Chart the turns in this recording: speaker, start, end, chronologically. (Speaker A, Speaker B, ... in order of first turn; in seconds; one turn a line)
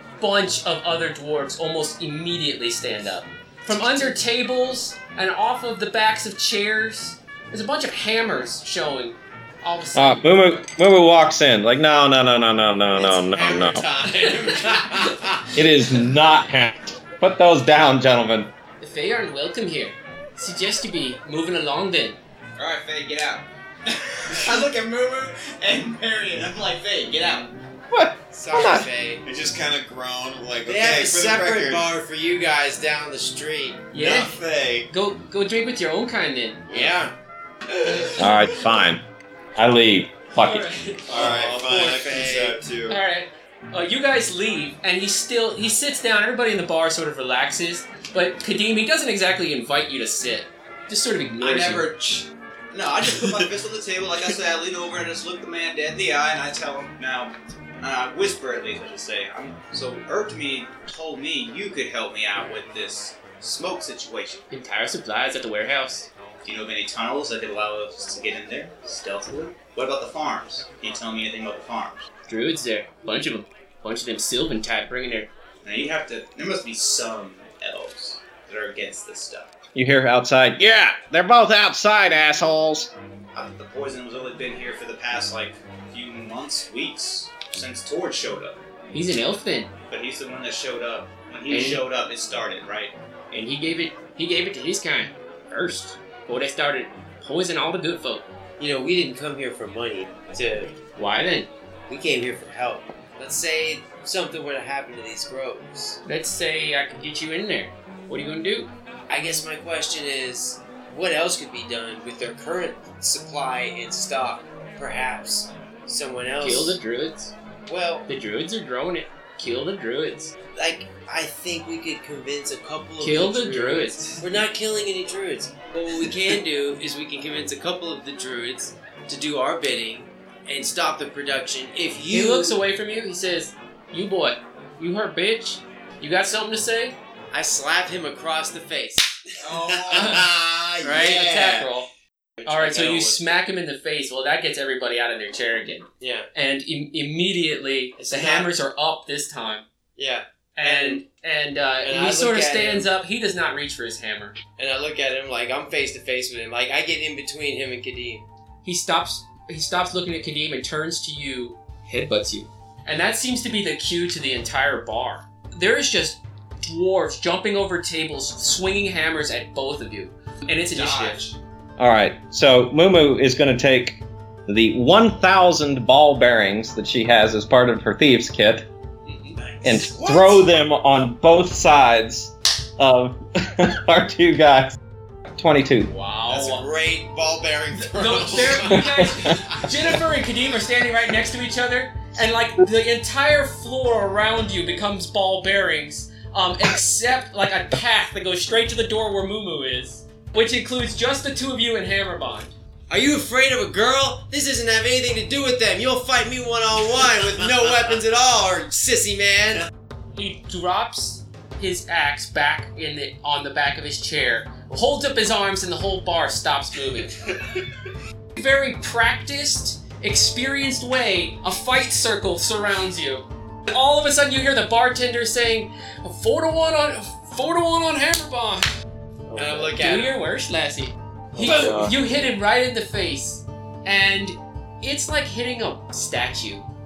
Speaker A: 0.2-10.6
Speaker B: 10.0-13.9
Speaker C: 12.9-16.0
Speaker B: 15.5-18.5
Speaker A: 18.8-22.2
Speaker D: 22.6-27.6
Speaker B: 27.9-28.9
Speaker C: 28.3-29.2
Speaker E: 29.2-31.9
Speaker C: 30.6-33.8
Speaker A: 33.9-34.4
Speaker E: 34.0-34.9
Speaker A: 34.9-36.7
Speaker C: 36.7-37.1
Speaker E: 37.8-38.5
Speaker B: 38.2-39.0
Speaker B: 39.6-40.7
Speaker A: 40.4-41.2
Speaker C: 41.1-42.6
Speaker E: 41.1-43.0
Speaker A: 42.9-51.9
Speaker D: 51.4-64.4
Speaker E: 53.1-53.5
Speaker A: 64.5-66.1
Speaker D: 66.5-72.1
Speaker A: 72.3-75.3
Speaker D: 75.6-79.5
Speaker B: 79.8-82.9
Speaker D: 83.3-88.7
Speaker A: 88.9-89.7
Speaker D: 89.9-92.9
Speaker A: 91.5-91.8
Speaker A: 93.3-98.3
Speaker C: 98.6-100.8
Speaker A: 101.0-101.5
Speaker C: 101.9-106.0
Speaker A: 106.1-108.7
Speaker C: 109.1-116.8
Speaker A: 116.4-117.3
Speaker C: 117.7-118.1
Speaker A: 118.1-120.3
Speaker C: 120.5-132.6
Speaker A: 123.0-124.2
Speaker A: 132.1-137.0
Speaker C: 137.3-139.1
Speaker D: 139.4-140.0
Speaker C: 139.7-141.7
Speaker E: 139.8-141.0
Speaker A: 139.9-140.3
Speaker A: 140.8-141.9
Speaker C: 142.4-143.2
Speaker A: 142.5-149.7
Speaker C: 146.0-146.3
Speaker C: 148.0-148.5
Speaker C: 150.0-151.0
Speaker A: 150.6-154.4
Speaker C: 151.8-152.9
Speaker C: 154.6-158.2
Speaker A: 158.6-171.2
Speaker D: 170.7-171.3
Speaker B: 171.8-178.6
Speaker B: 179.6-184.8
Speaker B: 185.3-185.9
Speaker A: 185.9-186.7
Speaker E: 186.3-188.6
Speaker C: 186.5-188.6
Speaker A: 187.8-202.5
Speaker B: 188.7-189.4
Speaker C: 202.9-209.7
Speaker A: 210.1-217.2
Speaker A: 218.4-228.7
Speaker B: 229.3-229.7
Speaker C: 229.3-230.2
Speaker A: 229.7-236.7
Speaker B: 231.4-232.0
Speaker C: 231.5-231.9